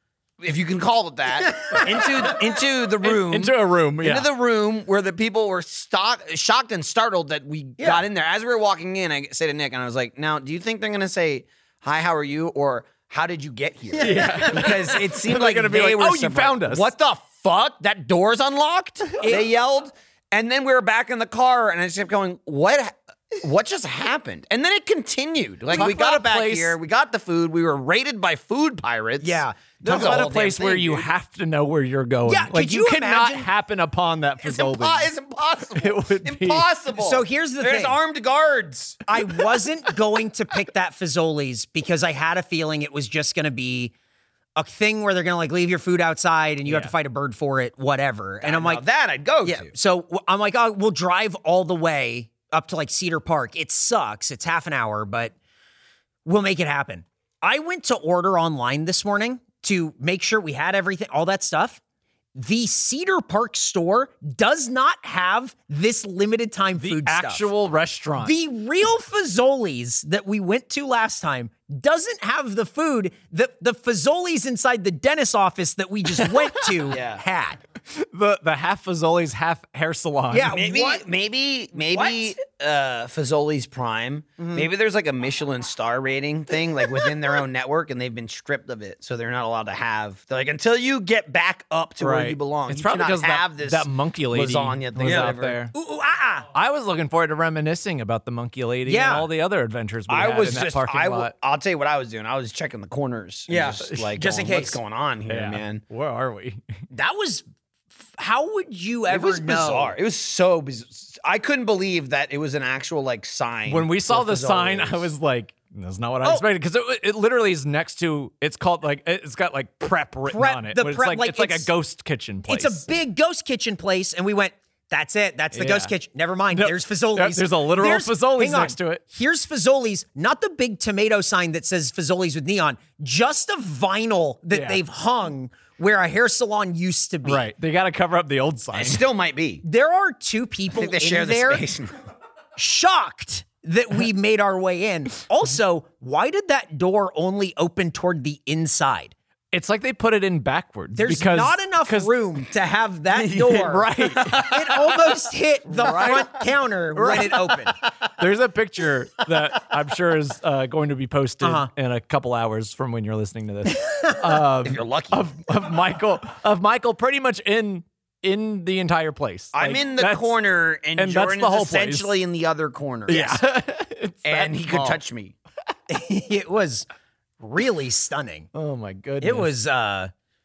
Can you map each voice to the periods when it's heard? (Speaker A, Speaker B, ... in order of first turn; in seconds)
Speaker A: 0.4-31.1, 34.4-39.3, 48.4-49.7, 76.8-77.2, 80.5-95.6, 100.1-105.8, 109.1-115.1, 138.7-139.6, 140.7-141.9, 153.1-154.6, 164.6-165.3, 169.5-173.4, 174.2-175.3
Speaker B: 1.6-2.4, 7.8-8.0, 14.0-14.7, 19.2-19.4, 29.2-30.2, 32.3-33.5, 37.0-38.0, 39.1-43.9, 44.5-48.8, 49.4-55.3, 56.2-61.8, 62.3-67.5, 68.2-77.6, 80.3-81.0, 81.8-82.4, 84.4-84.7, 95.0-96.5, 98.8-99.3, 103.5-104.8, 106.9-107.4, 108.2-109.9, 120.3-121.7, 122.5-137.5, 139.6-141.6, 142.6-149.1, 150.9-157.8, 161.4-161.7, 175.9-176.8, 177.4-178.5, 179.2-180.1
Speaker C: 3.0-4.3, 14.0-16.9, 25.7-26.8, 29.8-35.1, 35.8-36.6, 46.6-46.9, 66.8-68.3, 77.9-80.5, 92.0-95.7, 96.5-101.3, 105.3-106.6, 113.7-122.8, 125.5-125.9, 126.5-129.0, 134.5-134.8, 137.2-139.0, 149.5-152.2, 153.4-154.8, 155.7-170.4, 170.9-172.1, 173.1-175.0, 178.5-179.5